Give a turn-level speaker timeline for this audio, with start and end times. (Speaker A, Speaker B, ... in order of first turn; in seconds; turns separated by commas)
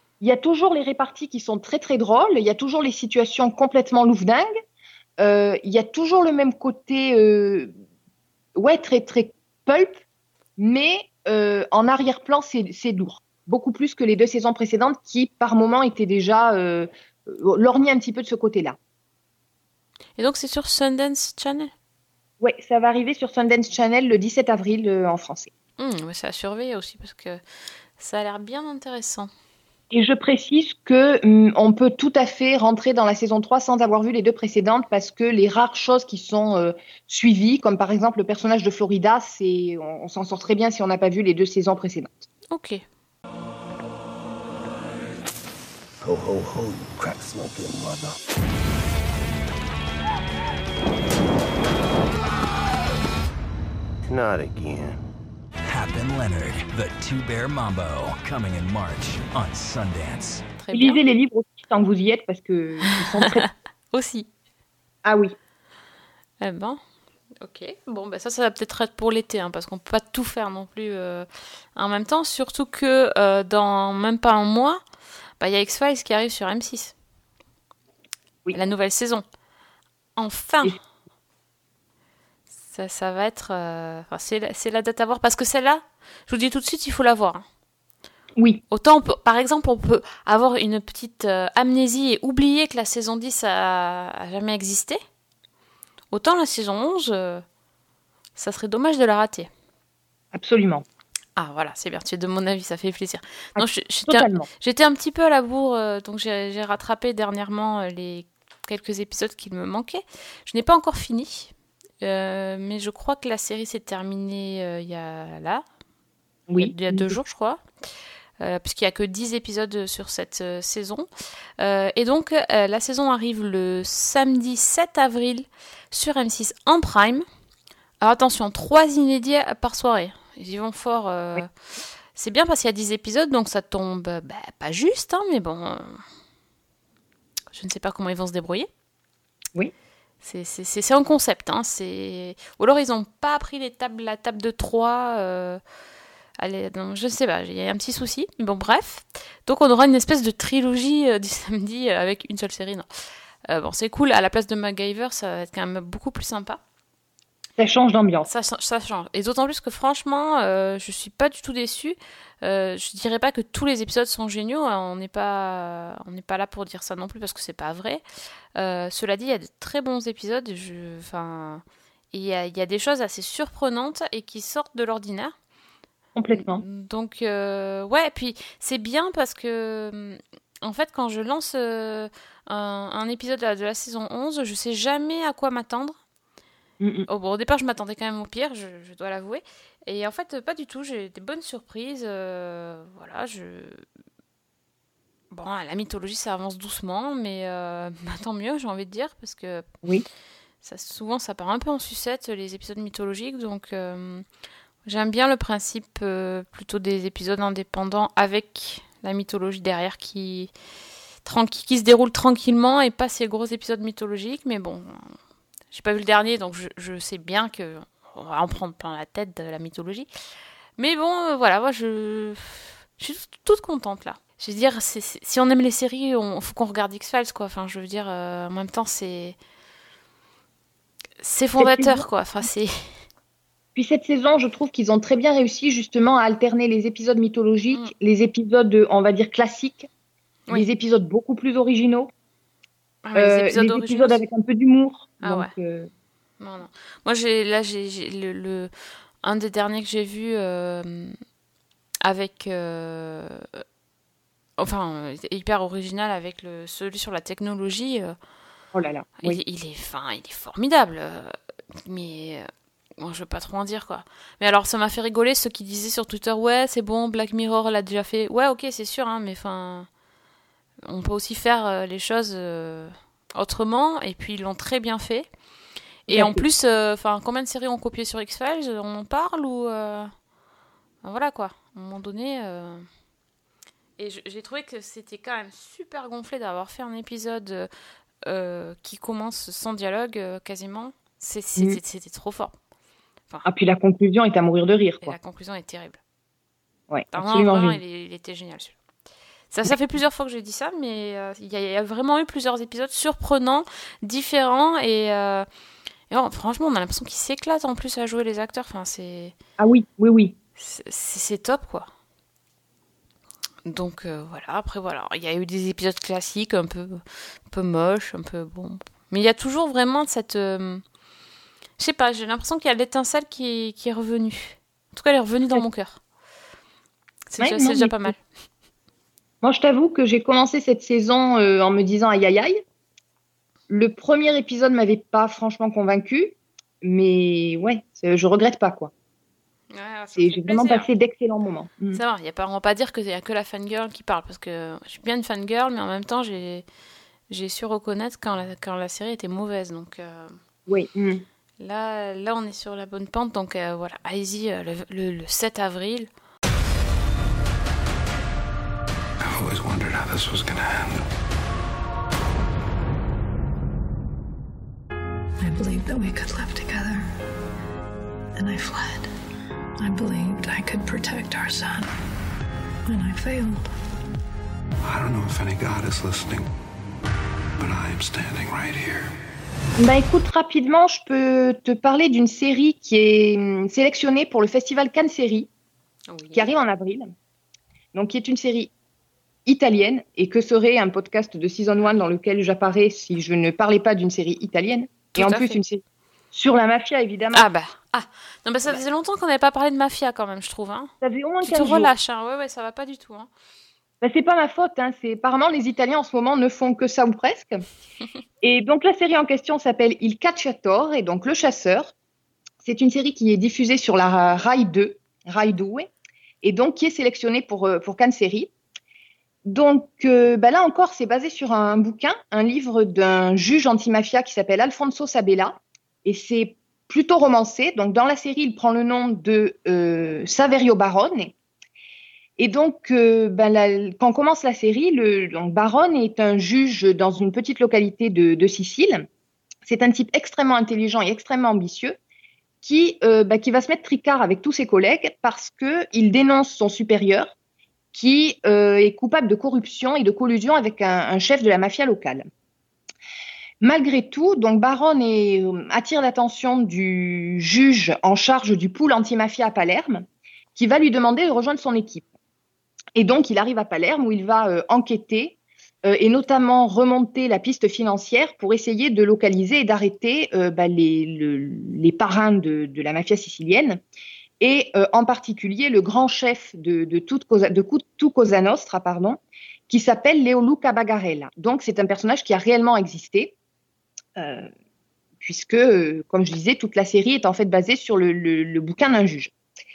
Speaker A: 0.2-4.5, Speaker A: 5.2-7.7, Speaker A: 8.5-10.0, Speaker A: 10.6-18.8, Speaker B: 20.2-21.7, Speaker A: 22.4-25.5, Speaker B: 25.8-27.4, Speaker B: 28.0-29.3, Speaker A: 29.9-42.2, Speaker B: 42.5-42.8, Speaker C: 46.0-48.1, Speaker C: 54.1-55.0, Speaker D: 55.7-60.4, Speaker B: 60.6-61.0, Speaker A: 60.7-63.5, Speaker B: 63.9-64.3, Speaker A: 65.0-65.3, Speaker B: 66.4-66.8, Speaker B: 67.4-74.8, Speaker B: 75.4-76.9, Speaker B: 78.5-79.2, Speaker B: 80.2-80.8, Speaker B: 82.7-87.4, Speaker A: 88.4-88.6, Speaker B: 88.7-95.0, Speaker B: 96.1-97.4, Speaker B: 98.4-99.5, Speaker A: 100.3-100.8, Speaker B: 101.4-115.6, Speaker A: 103.5-104.5, Speaker A: 116.5-117.1, Speaker B: 116.6-117.6, Speaker B: 118.4-121.1, Speaker B: 121.6-127.2, Speaker B: 128.0-131.5, Speaker B: 132.1-136.0, Speaker B: 137.5-138.7, Speaker B: 140.2-145.6, Speaker B: 146.4-152.9, Speaker B: 153.5-156.6, Speaker A: 157.6-158.3, Speaker B: 158.2-168.0, Speaker B: 168.5-175.3, Speaker A: 176.1-176.6, Speaker B: 176.3-185.9, Speaker A: 186.8-187.1, Speaker B: 187.1-193.8, Speaker B: 195.3-199.7, Speaker B: 200.6-204.2, Speaker B: 204.8-210.5, Speaker B: 211.2-215.2, Speaker B: 215.7-220.1, Speaker B: 220.8-229.3, Speaker B: 231.2-232.7, Speaker A: 231.6-232.0, Speaker A: 233.7-239.9, Speaker A: 240.5-242.1, Speaker B: 243.0-244.2, Speaker A: 243.1-245.9, Speaker B: 245.2-245.5, Speaker B: 246.4-248.7, Speaker B: 249.2-251.2, Speaker B: 252.0-253.6, Speaker B: 254.6-258.1, Speaker A: 258.7-259.4, Speaker B: 259.2-262.5, Speaker B: 263.0-269.9, Speaker B: 270.9-275.3, Speaker B: 276.1-280.1, Speaker A: 276.1-276.4, Speaker B: 281.0-282.9, Speaker B: 284.0-287.7, Speaker B: 288.2-292.5, Speaker A: 293.4-295.1, Speaker B: 295.0-296.0, Speaker A: 296.9-297.8, Speaker B: 297.1-298.7, Speaker B: 299.5-305.4, Speaker B: 306.1-309.3, Speaker A: 309.6-310.3, Speaker B: 310.6-311.9, Speaker B: 313.6-320.8, Speaker B: 321.8-326.0, Speaker B: 327.3-328.2, Speaker A: 327.4-328.1, Speaker A: 329.4-332.6, Speaker A: 333.7-338.9, Speaker B: 339.7-340.9, Speaker A: 340.1-342.0, Speaker B: 341.9-346.6, Speaker B: 347.3-350.4, Speaker A: 350.7-351.2, Speaker B: 351.6-356.1, Speaker E: 359.2-361.1, Speaker F: 365.4-367.1, Speaker F: 368.3-369.1, Speaker F: 369.8-371.9, Speaker F: 372.9-373.7, Speaker E: 374.8-376.5, Speaker E: 377.6-379.1, Speaker A: 379.8-385.5, Speaker B: 386.1-386.5, Speaker A: 386.3-387.1, Speaker A: 387.9-388.7, Speaker A: 389.4-397.5, Speaker B: 395.1-395.6, Speaker B: 397.3-403.3, Speaker A: 401.0-401.9, Speaker A: 404.0-407.6, Speaker A: 408.4-411.9, Speaker A: 412.6-415.9, Speaker A: 416.4-418.5, Speaker A: 419.4-431.3, Speaker A: 432.4-439.1, Speaker A: 439.6-442.0, Speaker A: 442.6-447.3, Speaker A: 447.9-452.2, Speaker A: 453.6-462.1, Speaker A: 462.9-473.8, Speaker A: 474.4-483.3, Speaker A: 484.2-484.5, Speaker A: 485.2-489.3